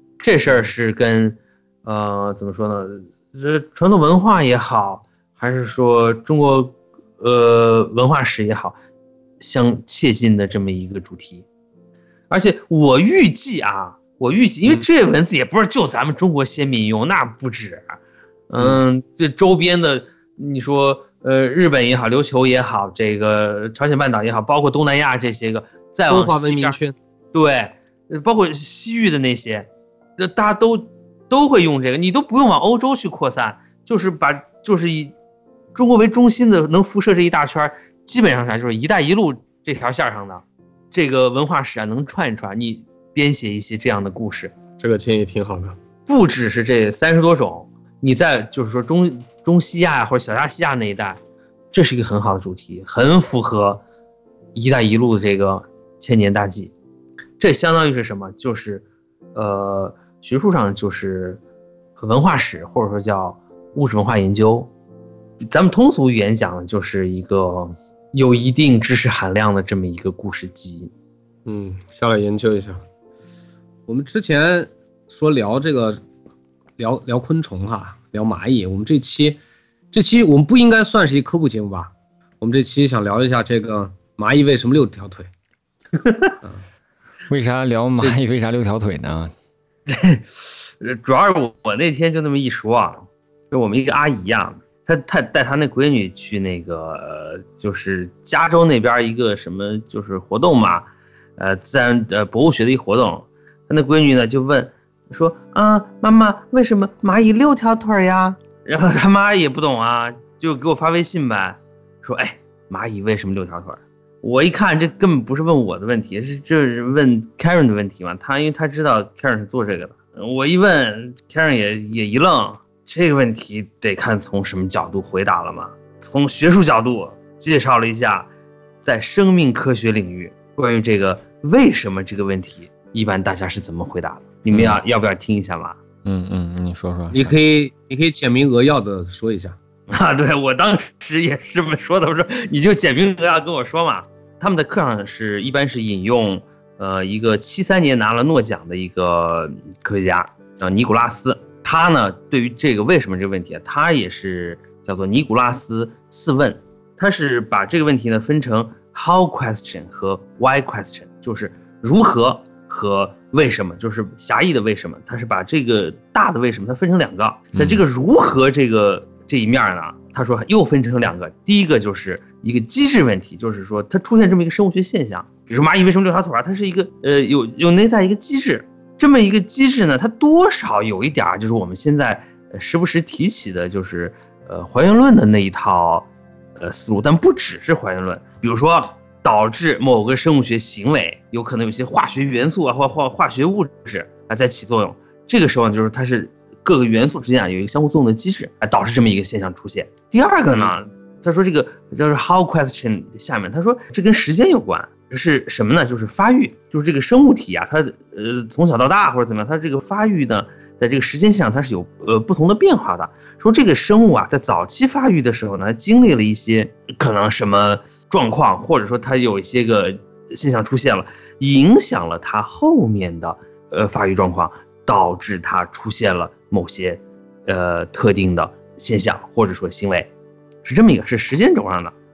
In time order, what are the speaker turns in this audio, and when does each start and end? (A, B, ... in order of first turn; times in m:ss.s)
0:00.2-0:08.8 A
0:00.5-0:00.7 B
0:09.4-0:11.4 A
0:12.3-0:18.0 A
0:18.5-0:26.8 A
0:26.1-0:27.0 B
0:27.3-0:29.7 A
0:30.2-0:35.1 A
0:35.8-0:44.5 A
0:44.8-0:45.8 B
0:46.1-0:51.2 A
0:51.7-0:53.8 A
0:54.6-0:56.7 A
0:57.4-1:01.4 A
1:02.0-1:04.7 A
1:05.4-1:10.9 A
1:11.5-1:12.8 B
1:13.9-1:16.0 B
1:16.8-1:19.4 B
1:19.9-1:25.3 B
1:26.0-1:26.3 A
1:27.3-1:29.3 C
1:29.9-1:40.9 A
1:41.4-2:08.3 A
2:08.8-2:15.8 A
2:14.5-2:14.8 C
2:16.0-2:17.4 C
2:17.1-2:19.6 B
2:19.9-3:50.1 A
2:47.5-2:47.8 C
3:50.6-3:51.9 A